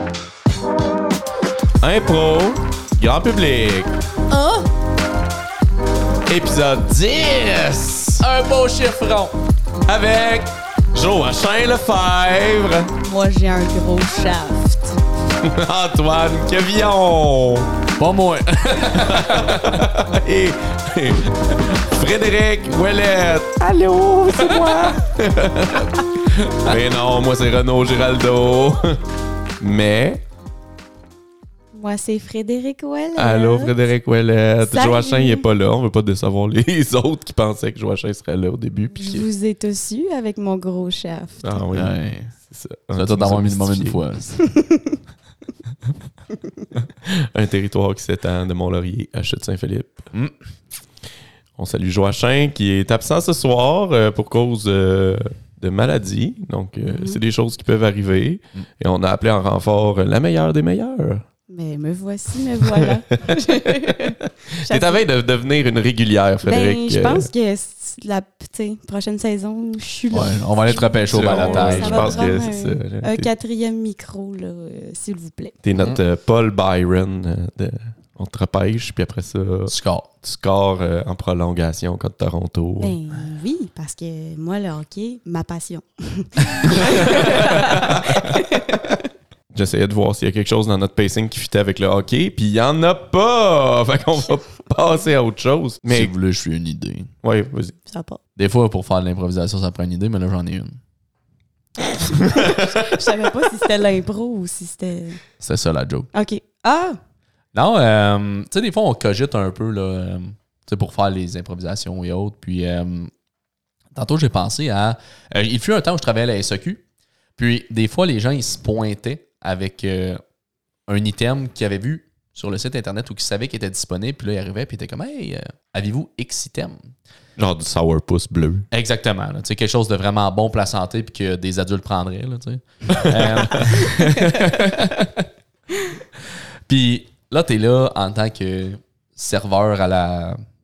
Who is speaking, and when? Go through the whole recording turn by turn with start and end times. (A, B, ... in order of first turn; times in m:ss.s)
0:01.8-0:03.9 A
0:04.3-0:04.7 B
0:06.3-0:08.2 A
0:08.2-0:09.3 C
0:09.8-0:12.9 A
0:13.0-0:15.0 B
0:15.4-0:17.7 A
0:18.0-0:19.8 C
0:18.9-0:23.6 A
0:23.6-0:25.0 B
0:24.3-0:25.9 A
0:26.5-0:29.0 A
0:29.6-0:30.2 A
0:31.7-0:33.7 B
0:33.2-0:39.3 A
0:34.6-0:35.5 B
0:39.0-0:41.6 B
0:41.4-0:44.0 A
0:41.7-0:42.3 C
0:42.9-0:44.4 C
0:44.5-0:45.0 B
0:46.8-0:50.1 A
0:51.6-1:01.2 A
0:56.8-0:57.2 B
1:01.5-1:05.0 B
1:02.6-1:07.3 A
1:06.4-1:15.6 B
1:10.1-1:12.4 C
1:11.1-1:13.3 A
1:15.6-1:23.0 A
1:19.7-1:20.1 C
1:22.8-1:29.0 B
1:26.8-1:28.2 A
1:29.5-1:36.1 A
1:35.9-1:37.1 C
1:37.2-1:37.8 A
1:37.9-1:38.2 B
1:38.4-1:40.8 C
1:42.4-1:42.8 A
1:42.4-1:45.2 B
1:45.4-1:46.1 C
1:46.1-1:47.0 B
1:47.5-1:53.1 C
1:54.0-1:56.8 C
1:57.4-2:00.2 C
2:00.9-2:06.9 C
2:07.4-2:08.7 A
2:08.7-2:15.1 C
2:13.2-2:13.8 A
2:16.7-2:20.4 C